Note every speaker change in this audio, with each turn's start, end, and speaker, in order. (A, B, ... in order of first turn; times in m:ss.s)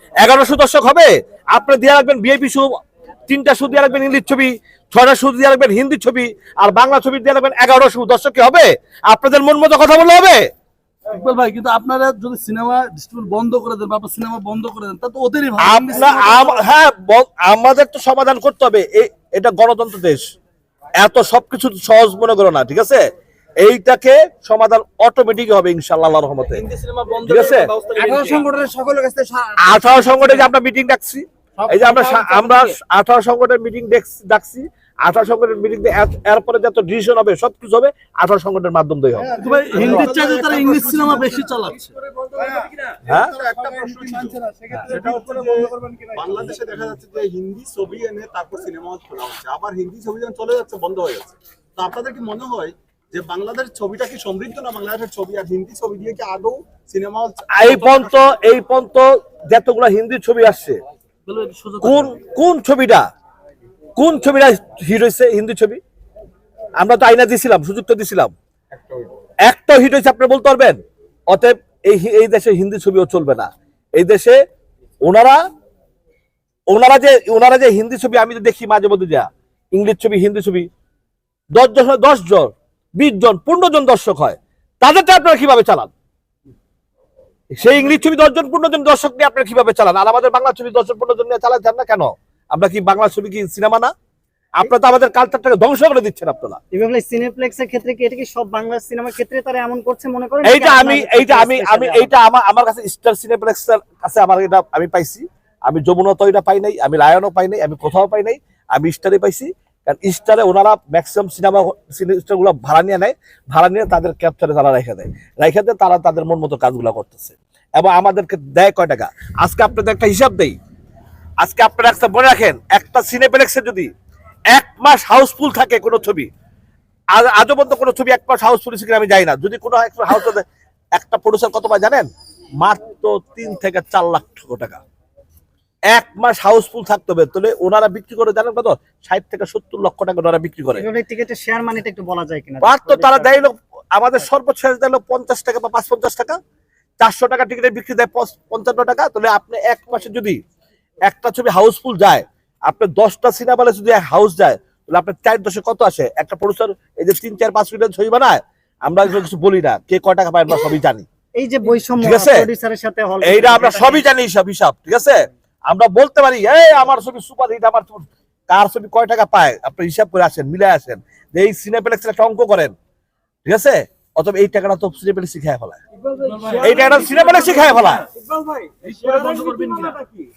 0:00.2-0:02.7 A
0:03.3-0:10.5 A
0:11.1-0:16.5 B
0:15.6-0:20.2 A
0:21.0-0:23.0 A
0:23.6-0:26.6 A
0:26.5-0:28.6 C
0:27.2-0:27.7 A
0:28.0-0:30.3 D
0:29.6-0:39.3 A
0:31.6-0:32.7 D
0:39.3-0:40.0 D
0:39.4-0:41.9 B
0:39.6-0:41.8 C
0:42.3-0:42.8 D
0:42.4-0:58.3 C
0:43.4-0:46.7 D
0:57.5-1:00.8 A
1:01.2-1:02.2 B
1:01.8-1:03.1 A
1:04.0-1:05.8 A
1:06.8-1:08.3 A
1:08.7-1:09.1 C
1:09.4-1:10.8 A
1:11.3-1:14.4 A
1:15.0-1:15.4 A
1:16.7-1:20.7 A
1:21.5-1:25.9 A
1:27.5-1:33.9 A
1:34.6-1:36.6 A
1:36.7-1:42.1 E
1:40.4-2:00.6 A
2:01.4-2:03.9 A
2:04.5-2:06.3 A
2:07.1-2:10.4 A
2:10.9-2:12.1 A
2:12.6-2:14.8 A
2:15.9-2:20.8 A
2:20.7-2:23.3 E
2:22.6-2:26.4 A
2:27.0-2:30.4 A
2:31.1-2:41.0 A
2:41.4-2:44.0 E
2:42.0-2:42.5 A
2:43.2-2:52.7 A
2:53.4-2:55.8 A
2:56.0-3:00.2 D
2:56.2-2:56.9 B
2:56.5-2:58.0 C
2:56.6-2:58.0 A
2:58.9-3:00.0 B
2:59.1-3:00.1 C